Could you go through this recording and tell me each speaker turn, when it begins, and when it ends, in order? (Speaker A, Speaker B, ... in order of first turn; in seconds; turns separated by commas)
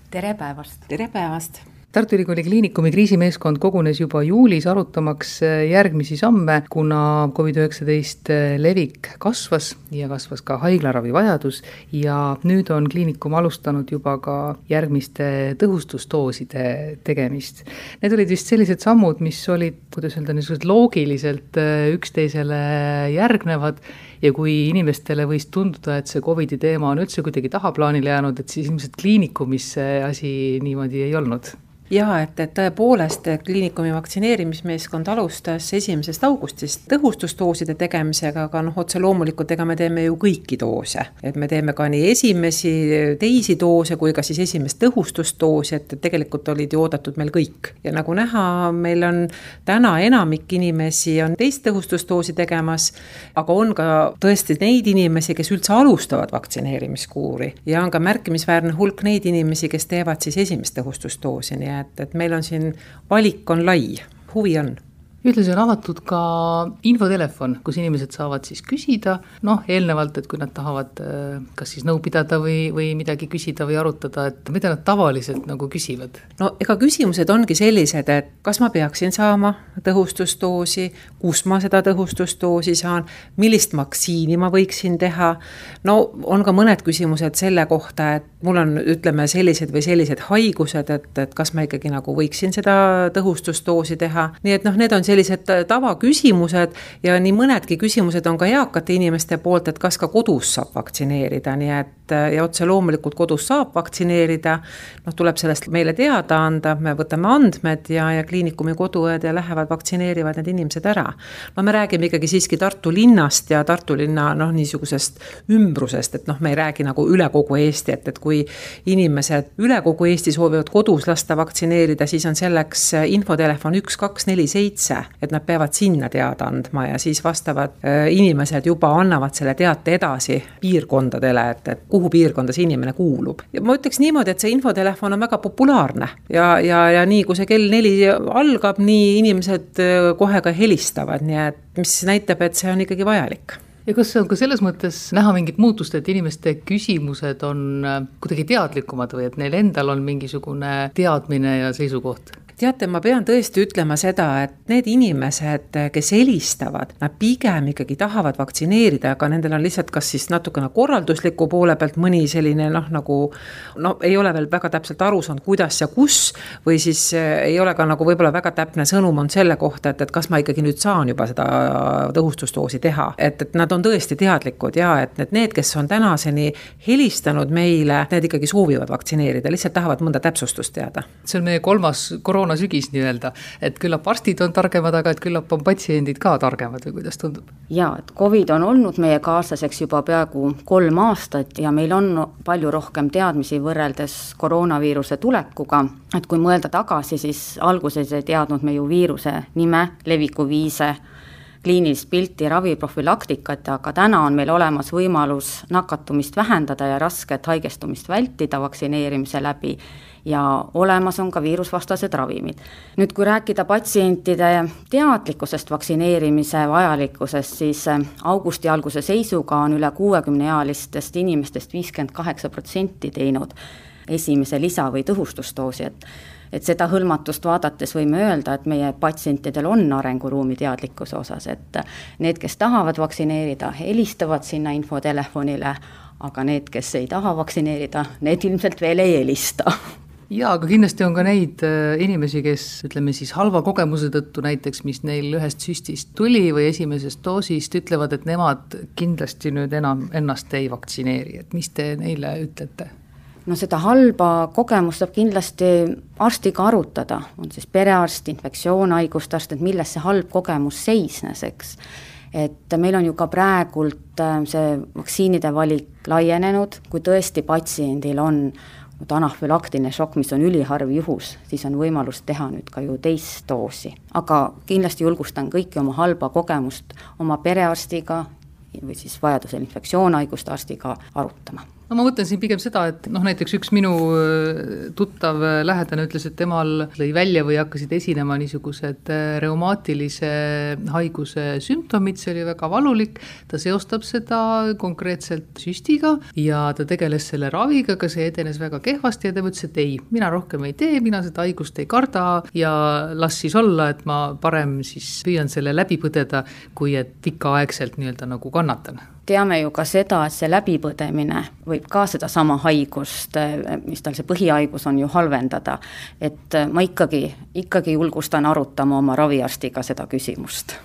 Speaker A: 0.2-0.8, Speaker B: 0.9-1.6, Speaker C: 1.9-31.6, Speaker B: 31.9-64.8, Speaker C: 65.2-76.2, Speaker B: 76.4-143.6, Speaker C: 143.8-152.3, Speaker B: 152.6-181.1, Speaker C: 181.2-187.4, Speaker A: 187.7-201.0, Speaker A: 201.6-223.5, Speaker A: 224.1-226.0, Speaker A: 226.5-239.7, Speaker C: 240.3-252.9, Speaker A: 253.4-261.8, Speaker A: 262.3-281.6, Speaker C: 281.9-309.0, Speaker A: 309.3-320.8